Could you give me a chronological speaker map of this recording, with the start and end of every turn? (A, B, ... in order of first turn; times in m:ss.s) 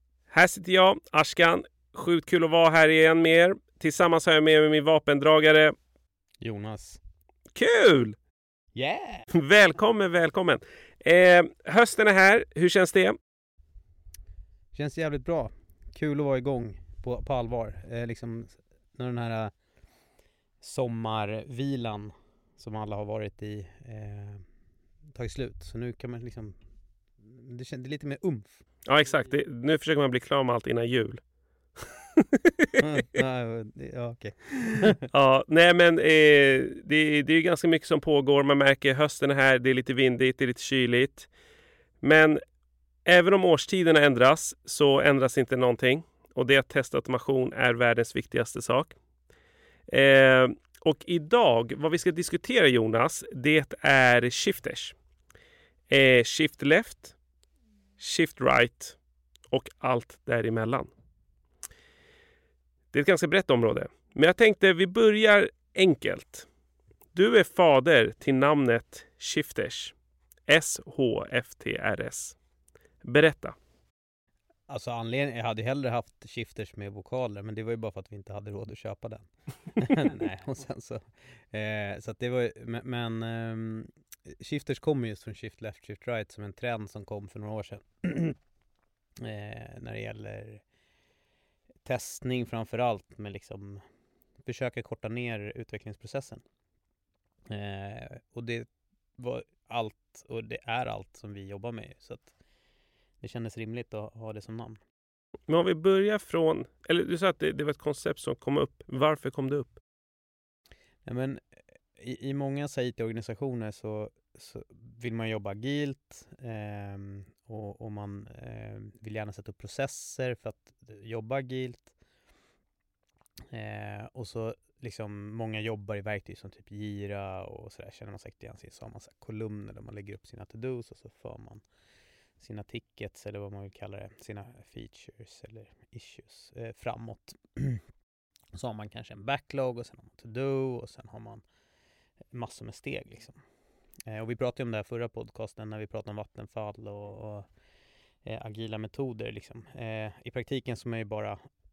0:00.3-0:05.7 A
0:06.4-0:07.0 B
0:07.5-0:08.2 A
0:08.7-0:09.3 B
0:09.3-0:13.2 A
0:14.7-0:19.5 B
0:20.6-0:24.4 B
0:25.1-0:26.6 B
0:27.2-0:28.6 B
0:28.8-0:31.2 A
0:31.8-0:32.7 A
0:32.8-0:35.0 B
0:35.1-0:41.3 A
0:42.0-0:42.4 A
0:43.0-0:49.0 A
0:49.9-0:55.0 A
0:55.9-0:57.2 A
0:58.0-0:59.0 A
0:59.5-1:00.9 A
1:02.9-1:06.5 A
1:07.1-1:09.9 A
1:10.5-1:12.4 A
1:13.0-1:13.6 A
1:14.7-1:28.4 B
1:29.2-1:30.6 B
1:31.8-1:33.8 B
1:34.4-1:36.4 B
1:37.5-1:42.3 B
1:43.2-1:44.8 B
1:45.5-1:49.8 A
1:51.0-1:51.4 B
1:51.9-2:01.9 B
2:03.5-2:11.6 B
2:12.4-2:17.8 B
2:18.5-2:21.4 B
2:22.3-2:23.4 B
2:24.1-2:27.5 B
2:28.2-2:31.4 B